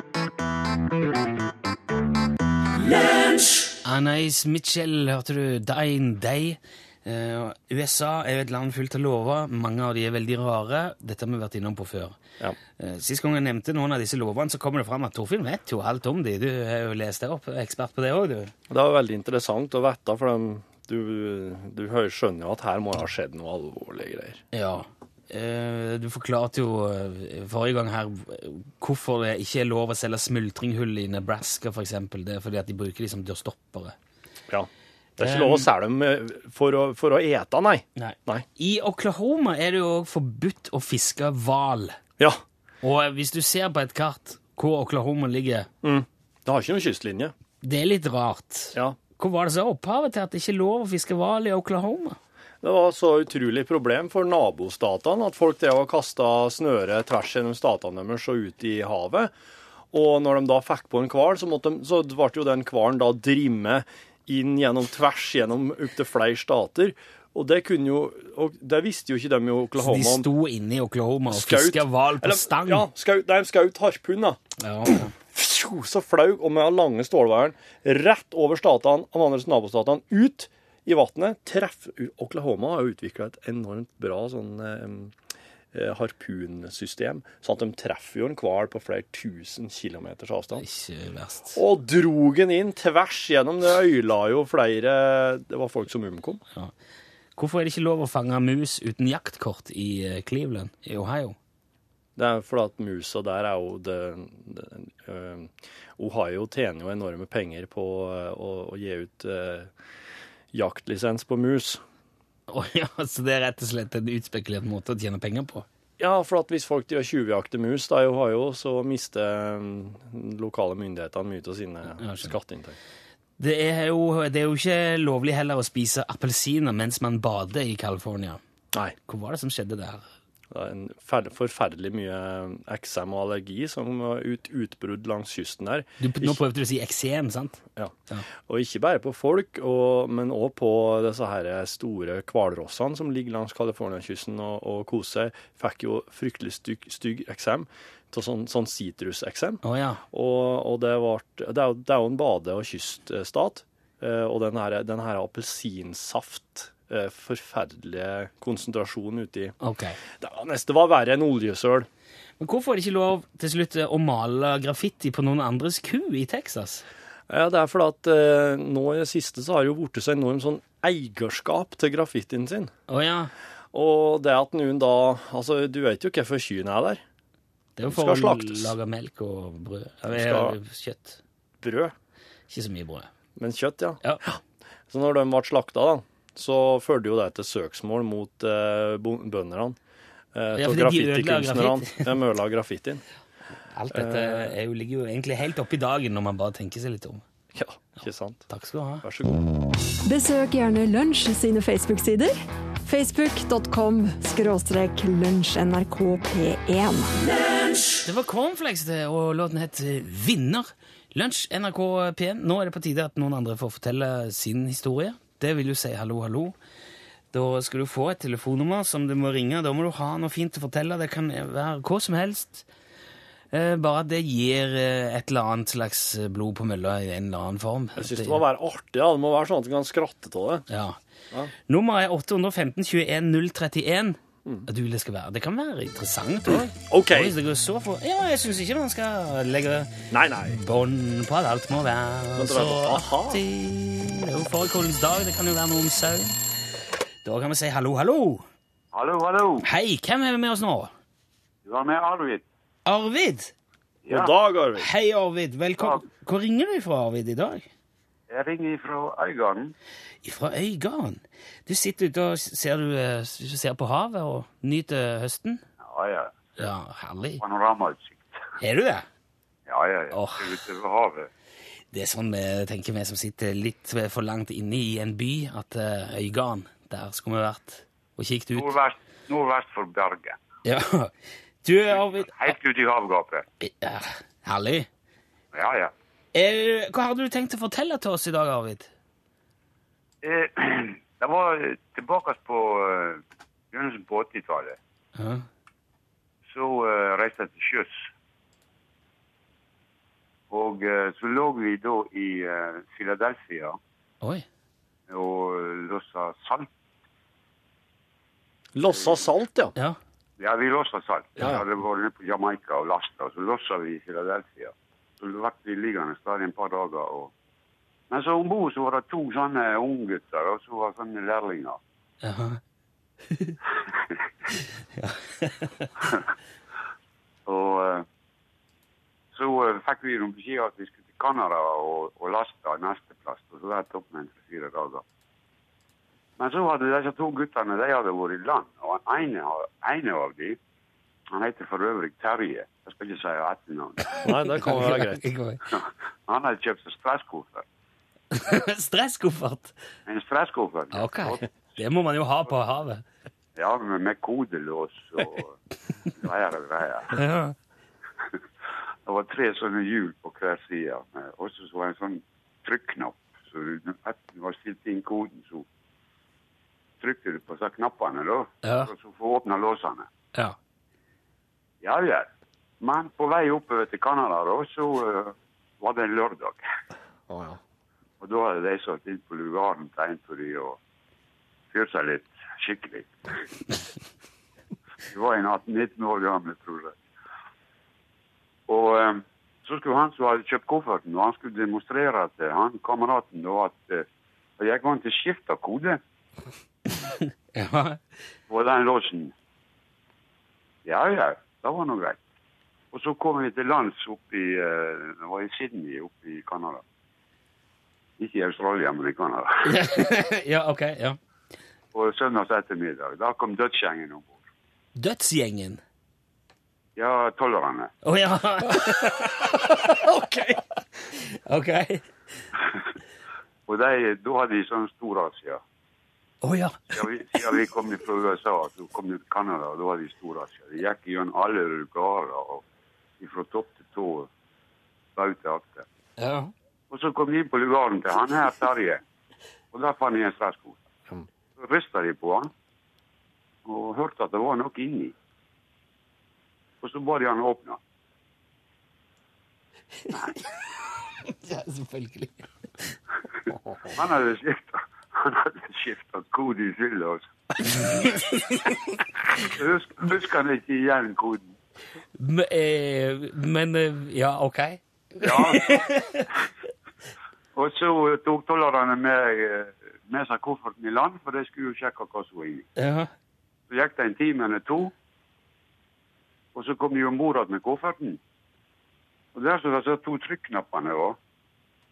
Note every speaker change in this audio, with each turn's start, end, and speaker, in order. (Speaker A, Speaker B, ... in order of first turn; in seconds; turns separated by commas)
Speaker A: 3.8-12.2, Speaker A: 12.8-18.5, Speaker B: 18.7-24.4, Speaker A: 24.5-33.9, Speaker B: 34.5-38.5, Speaker A: 35.2-35.7, Speaker A: 38.0-42.0, Speaker A: 42.8-45.7, Speaker B: 45.8-47.3, Speaker A: 47.6-52.2, Speaker B: 52.6-59.3, Speaker B: 59.9-70.3, Speaker A: 69.8-72.9, Speaker B: 71.3-74.4, Speaker A: 74.6-75.1, Speaker B: 75.2-85.1, Speaker B: 85.7-90.7, Speaker A: 90.6-91.6, Speaker B: 91.5-96.4, Speaker A: 97.4-101.4, Speaker B: 102.2-109.7, Speaker B: 110.5-111.8, Speaker A: 112.5-115.7, Speaker B: 116.0-122.8, Speaker A: 122.0-122.3, Speaker A: 123.4-128.4, Speaker A: 129.1-130.1, Speaker B: 130.5-136.4, Speaker A: 136.0-138.2, Speaker B: 137.8-149.6, Speaker A: 149.6-150.0, Speaker B: 150.1-159.5, Speaker A: 159.6-160.0, Speaker B: 160.2-161.9, Speaker A: 162.4-166.8, Speaker B: 167.3-172.7, Speaker A: 172.9-173.3, Speaker B: 173.7-177.0, Speaker A: 177.8-181.2, Speaker B: 177.9-178.7, Speaker B: 180.1-180.6, Speaker B: 181.6-181.9, Speaker A: 182.5-183.1, Speaker B: 183.4-184.4, Speaker B: 184.9-189.8, Speaker B: 190.3-193.0, Speaker A: 190.5-192.2, Speaker A: 193.7-197.2, Speaker B: 193.9-194.5, Speaker B: 197.5-198.5, Speaker A: 198.0-199.1, Speaker B: 199.0-199.5, Speaker C: 200.1-207.1, Speaker A: 208.0-216.6, Speaker A: 217.3-222.7, Speaker A: 223.5-228.4, Speaker B: 227.9-230.6, Speaker A: 230.7-231.0, Speaker A: 231.7-246.4, Speaker B: 236.5-237.3, Speaker B: 240.1-240.6, Speaker B: 242.3-243.4, Speaker A: 247.2-248.4, Speaker D: 248.9-249.7, Speaker A: 249.6-250.9, Speaker D: 251.6-252.4, Speaker A: 252.9-253.5, Speaker D: 254.1-254.3, Speaker B: 254.1-254.9, Speaker A: 254.8-257.6, Speaker D: 258.3-259.7, Speaker A: 260.2-265.6, Speaker D: 265.8-266.6, Speaker A: 266.6-267.4, Speaker D: 267.4-268.4, Speaker A: 268.6-269.1, Speaker D: 269.7-271.3, Speaker A: 270.1-270.6, Speaker A: 271.9-278.8, Speaker D: 278.5-280.4, Speaker A: 280.6-281.1, Speaker A: 281.6-282.6, Speaker D: 282.2-283.4, Speaker A: 283.6-284.9, Speaker D: 285.5-285.9, Speaker A: 286.3-288.9, Speaker D: 290.2-294.8, Speaker A: 295.1-295.4, Speaker D: 296.5-298.0, Speaker D: 300.5-303.8, Speaker D: 305.1-306.7, Speaker B: 308.7-309.8, Speaker D: 308.9-309.2, Speaker D: 310.4-317.3, Speaker D: 318.1-321.8, Speaker A: 322.2-322.6, Speaker A: 325.0-325.9, Speaker D: 327.4-328.1, Speaker D: 329.3-335.0, Speaker D: 336.4-340.6, Speaker D: 341.3-344.2, Speaker B: 344.2-345.2, Speaker A: 344.6-345.6, Speaker D: 345.7-347.6, Speaker A: 348.3-349.7, Speaker D: 350.1-351.5, Speaker A: 350.9-353.0, Speaker D: 353.6-355.5, Speaker D: 356.2-357.2, Speaker A: 357.1-357.6, Speaker D: 359.1-365.6, Speaker D: 367.0-370.1, Speaker A: 368.6-368.9, Speaker D: 371.8-372.3, Speaker D: 372.8-376.6, Speaker B: 377.3-377.6, Speaker D: 378.2-380.8, Speaker D: 381.7-383.1, Speaker D: 385.1-387.0, Speaker D: 388.7-394.1, Speaker D: 394.6-396.0, Speaker A: 397.1-398.0, Speaker D: 398.5-399.3, Speaker D: 400.9-402.2, Speaker D: 402.9-406.8, Speaker D: 408.2-409.6, Speaker A: 409.6-411.2, Speaker D: 411.9-414.4, Speaker A: 414.9-415.8, Speaker D: 416.9-417.9, Speaker A: 418.0-420.1, Speaker B: 419.8-420.6, Speaker A: 421.1-422.1, Speaker D: 423.7-425.6, Speaker A: 426.4-427.4, Speaker D: 426.9-432.6, Speaker D: 433.2-434.3, Speaker D: 435.1-435.9, Speaker A: 436.2-436.5, Speaker D: 436.9-439.0, Speaker D: 439.7-440.8, Speaker D: 441.6-442.5, Speaker D: 443.6-445.1, Speaker D: 446.8-447.8, Speaker A: 451.3-452.5, Speaker B: 453.6-453.9, Speaker D: 453.9-457.2, Speaker A: 457.8-459.0, Speaker D: 459.4-461.5, Speaker A: 462.2-466.3, Speaker D: 465.2-465.9, Speaker D: 467.6-472.7, Speaker A: 472.8-473.1, Speaker D: 473.7-474.9, Speaker D: 476.5-478.2, Speaker D: 479.3-481.2